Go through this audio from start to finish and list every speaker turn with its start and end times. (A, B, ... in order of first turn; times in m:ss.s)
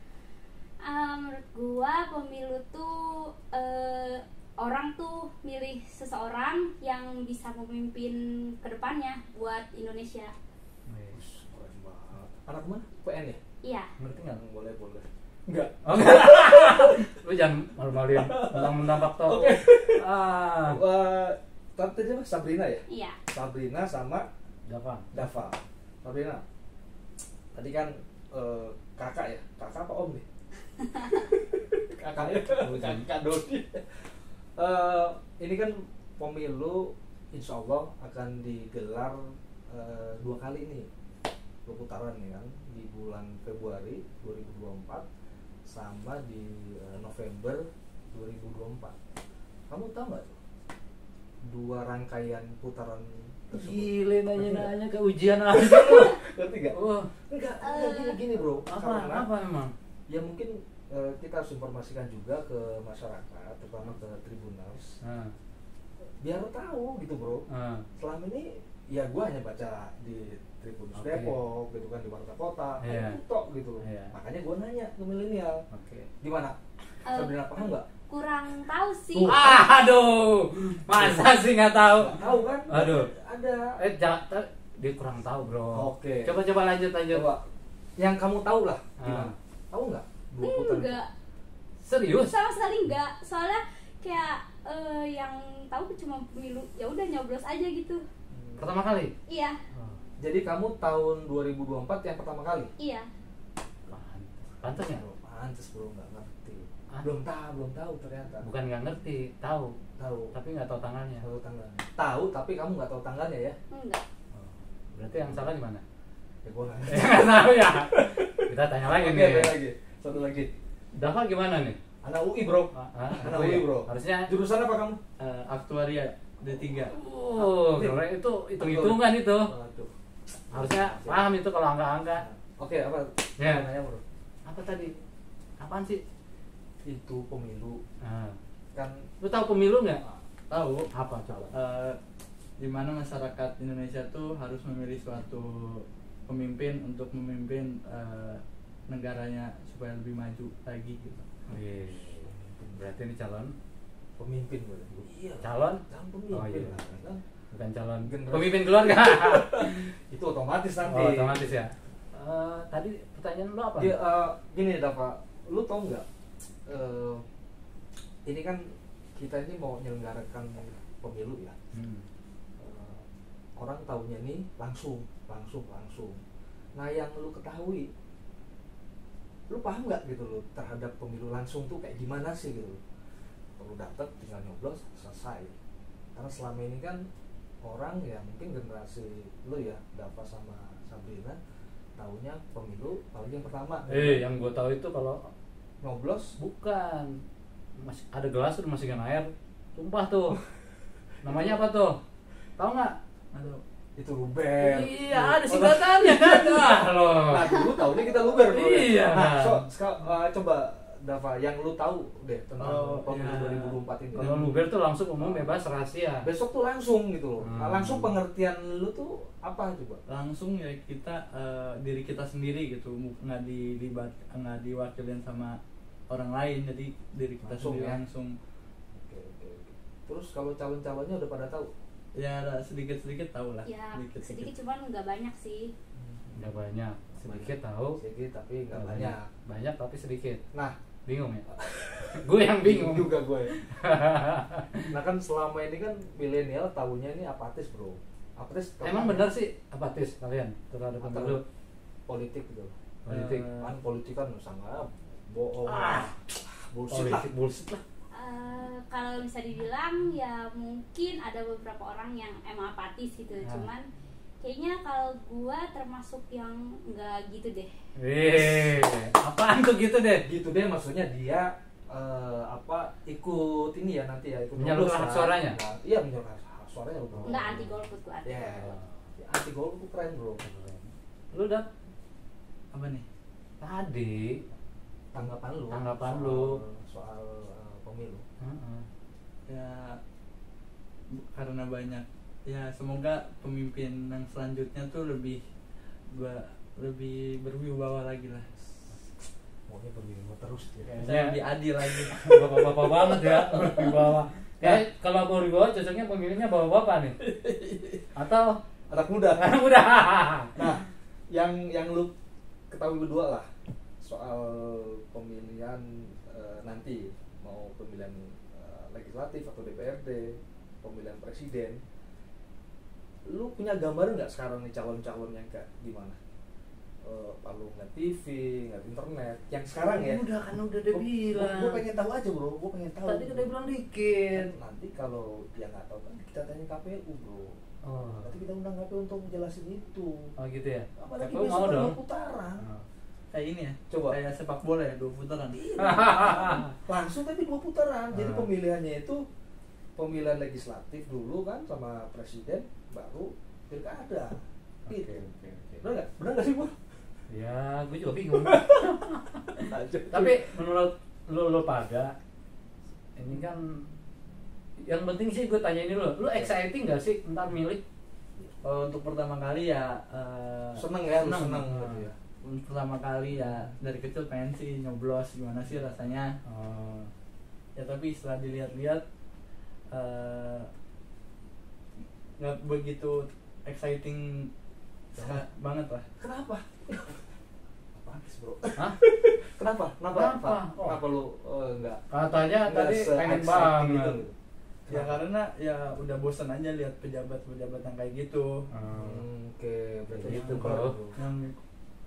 0:00.8-0:10.3 A
0:10.9-0:11.2 B
0:11.1-0:13.4 C
0:13.6-0:13.9 A
0:14.0-0:14.4 B
0:14.2-0:17.1 C
0:15.8-0:20.8 B
0:18.1-0:20.1 C
0:20.6-0:24.2 C
0:22.9-0:23.2 A
0:24.7-0:25.4 B
0:25.1-0:26.4 C
0:27.5-0:30.2 C
0:30.8-0:31.2 A
0:31.0-0:39.2 C
0:32.5-0:33.1 B
0:39.7-0:40.8 C
0:41.6-0:45.0 C
0:45.6-0:49.0 C
0:49.7-0:50.4 C
0:51.4-0:54.7 C
0:53.5-0:56.2 B
0:55.5-0:56.8 C
0:56.7-0:57.1 B
0:57.3-0:59.3 C
0:57.6-0:58.2 A
0:58.7-0:59.7 B
1:00.1-1:05.0 C
1:05.0-1:05.3 B
1:06.2-1:07.4 C
1:07.5-1:07.9 B
1:08.0-1:15.6 C
1:10.9-1:11.3 B
1:12.8-1:13.2 B
1:13.8-1:14.1 B
1:15.7-1:16.1 B
1:16.2-1:16.5 C
1:17.0-1:19.4 A
1:17.1-1:17.8 C
1:19.1-1:19.6 C
1:19.3-1:23.1 B
1:20.9-1:21.3 C
1:22.0-1:23.8 C
1:23.8-1:27.2 B
1:25.7-1:26.4 C
1:27.1-1:27.4 C
1:28.0-1:31.0 C
1:29.0-1:29.3 B
1:30.4-1:31.1 A
1:31.8-1:32.3 B
1:32.1-1:38.0 A
1:38.3-1:38.7 C
1:38.6-1:39.1 B
1:39.3-1:39.6 A
1:39.7-1:40.0 B
1:40.2-1:42.7 C
1:42.8-1:43.0 A
1:43.9-1:45.0 B
1:44.6-1:48.5 C
1:48.4-1:49.7 B
1:50.0-1:50.3 C
1:50.3-1:51.2 B
1:51.2-1:53.6 C
1:53.7-1:54.0 A
1:54.3-1:55.8 B
1:55.2-1:55.5 C
1:56.4-2:00.5 C
1:56.9-1:59.5 B
2:01.0-2:01.8 B
2:02.0-2:05.0 C
2:02.7-2:04.3 B
2:05.2-2:06.9 D
2:06.9-2:09.5 B
2:07.4-2:08.0 C
2:08.6-2:09.9 C
2:10.5-2:11.2 C
2:10.5-2:12.2 B
2:12.2-2:14.0 C
2:13.4-2:13.6 B
2:14.4-2:14.9 B
2:15.6-2:16.0 B
2:16.8-2:17.8 C
2:18.0-2:18.4 B
2:18.7-2:19.0 C
2:19.2-2:20.0 B
2:20.5-2:20.9 D
2:20.9-2:21.5 B
2:21.3-2:21.5 C
2:21.5-2:22.0 D
2:22.6-2:31.3 D
2:31.5-2:33.5 B
2:32.2-2:32.8 C
2:34.2-2:37.2 C
2:35.4-2:36.9 B
2:37.5-2:39.9 B
2:38.0-2:41.6 C
2:40.8-2:44.0 B
2:43.8-2:46.0 C
2:46.6-2:47.2 C
2:48.2-2:51.6 C
2:51.7-2:52.0 B
2:52.6-2:53.0 C
2:53.6-2:56.2 C
2:56.8-2:57.9 C
2:59.5-3:02.8 C
3:03.6-3:05.5 C
3:06.1-3:07.0 C
3:07.6-3:11.4 C
3:12.0-3:14.2 C
3:13.9-3:15.3 B
3:15.8-3:16.3 C
3:16.4-3:17.1 B
3:17.8-3:20.4 B
3:21.2-3:22.0 B
3:21.2-3:21.6 C
3:22.6-3:22.9 B
3:23.3-3:23.6 D
3:24.0-3:34.4 C
3:24.6-3:27.4 B
3:27.4-3:28.1 A
3:28.5-3:29.6 B
3:32.6-3:34.6 D
3:34.1-3:36.2 B
3:36.2-3:40.0 C
3:37.4-3:38.1 B
3:40.1-3:48.4 D
3:47.4-3:48.0 C
3:48.9-3:51.7 C
3:52.1-3:54.5 D
3:53.6-3:55.7 A
3:55.9-3:56.5 C
3:56.3-3:58.0 B
3:57.2-3:59.3 C
3:58.7-4:00.4 B
4:01.0-4:01.4 B
4:01.5-4:03.5 C
4:02.1-4:04.9 B
4:04.9-4:09.3 C
4:08.8-4:11.4 B
4:11.0-4:11.4 C
4:12.1-4:12.7 C
4:13.0-4:13.5 B
4:13.1-4:13.7 D
4:13.6-4:17.3 C
4:15.7-4:16.1 B
4:16.9-4:17.8 B
4:18.1-4:23.8 A
4:23.4-4:23.7 B
4:24.4-4:27.7 A
4:28.0-4:30.2 B
4:28.3-4:29.0 C
4:30.2-4:37.7 C
4:34.6-4:35.6 B
4:37.2-4:37.7 B
4:37.2-4:38.7 A
4:38.2-4:40.4 C
4:38.5-4:39.1 B
4:40.4-4:41.7 B
4:42.7-4:43.0 D
4:43.6-4:44.4 B
4:45.1-4:48.2 C
4:45.7-4:46.6 B
4:48.4-4:48.9 B
4:49.5-4:50.0 D
4:51.1-4:55.4 D
4:56.1-4:58.5 D
4:59.7-5:01.0 C
5:00.8-5:01.4 B
5:01.0-5:02.4 D
5:02.1-5:07.2 B
5:03.1-5:04.0 D
5:07.2-5:08.0 D
5:08.2-5:08.6 B
5:08.9-5:09.5 C
5:09.4-5:10.7 B
5:10.6-5:12.1 C
5:12.7-5:13.5 C
5:14.0-5:21.8 C
5:23.2-5:26.2 C
5:27.0-5:30.2 C
5:29.7-5:31.8 B
5:30.9-5:33.5 C
5:33.0-5:34.5 B
5:34.3-5:37.6 C
5:37.8-5:38.4 B
5:38.2-5:40.3 C
5:40.4-5:42.0 B
5:41.0-5:42.6 C
5:42.6-5:42.8 B
5:43.3-5:45.7 D
5:43.9-5:44.2 C
5:45.5-5:49.2 C
5:45.8-5:46.7 B
5:48.1-5:48.5 B
5:50.0-5:55.3 C
5:54.9-5:55.9 B
5:55.8-5:56.7 C
5:57.3-6:02.1 B
5:58.3-5:58.9 C
5:59.6-6:00.4 C
6:03.2-6:03.8 B
6:04.8-6:07.8 B
6:06.3-6:06.5 C
6:08.6-6:10.8 D
6:10.7-6:12.2 C
6:11.2-6:12.0 B
6:12.4-6:16.4 D
6:16.4-6:17.1 B
6:17.8-6:19.0 D
6:19.9-6:20.7 D
6:22.4-6:24.5 D
6:25.1-6:26.0 D
6:25.2-6:25.4 C
6:26.2-6:27.2 C
6:27.9-6:32.0 C
6:30.1-6:31.0 B
6:32.1-6:34.2 B
6:32.6-6:35.2 C
6:34.9-6:38.7 D
6:38.7-6:39.2 B
6:38.9-6:41.2 C
6:40.2-6:40.9 B
6:40.2-6:41.5 D